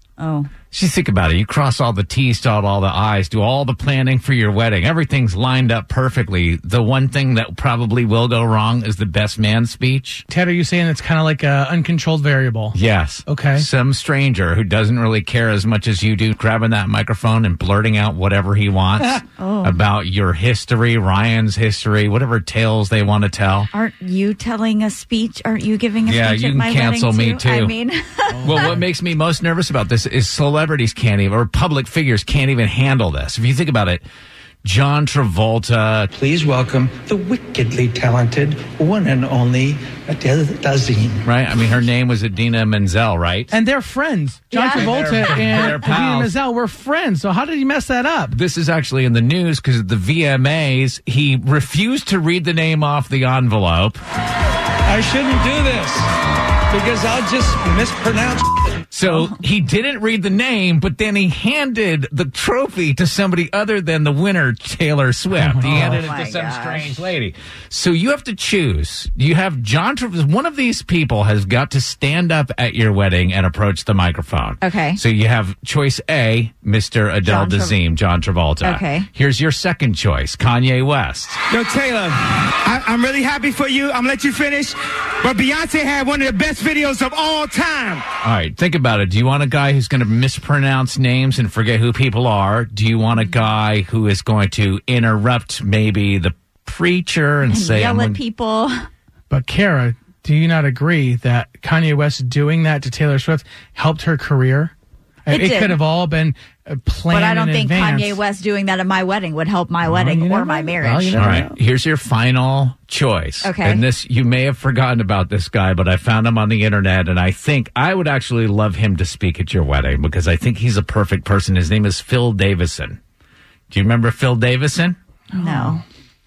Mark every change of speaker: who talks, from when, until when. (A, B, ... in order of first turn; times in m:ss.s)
0:00.2-0:00.5 A
0:00.7-0:10.2 B
0:10.3-0:13.7 C
0:12.7-0:23.7 B
0:19.4-0:19.8 A
0:23.7-0:28.8 A
0:26.1-0:27.7 B
0:28.4-0:34.0 B
0:34.6-0:36.1 B
0:36.1-0:41.2 D
0:41.2-0:43.5 B
0:43.5-0:48.4 C
0:44.5-0:45.0 A
0:44.7-0:46.3 B
0:48.3-0:54.0 B
0:54.9-0:56.1 D
0:56.7-0:58.4 D
0:58.9-1:21.4 B
1:05.4-1:06.0 C
1:05.6-1:06.9 A
1:14.6-1:15.0 A
1:17.2-1:17.8 A
1:18.6-1:19.1 A
1:21.5-1:28.0 E
1:28.2-1:38.2 B
1:37.5-1:38.8 A
1:39.3-1:44.7 C
1:45.3-1:48.2 C
1:45.3-1:45.8 A
1:47.1-1:51.4 A
1:49.8-1:51.5 C
1:51.1-2:03.0 B
1:53.4-1:53.8 A
2:03.7-2:05.0 B
2:05.3-2:05.8 A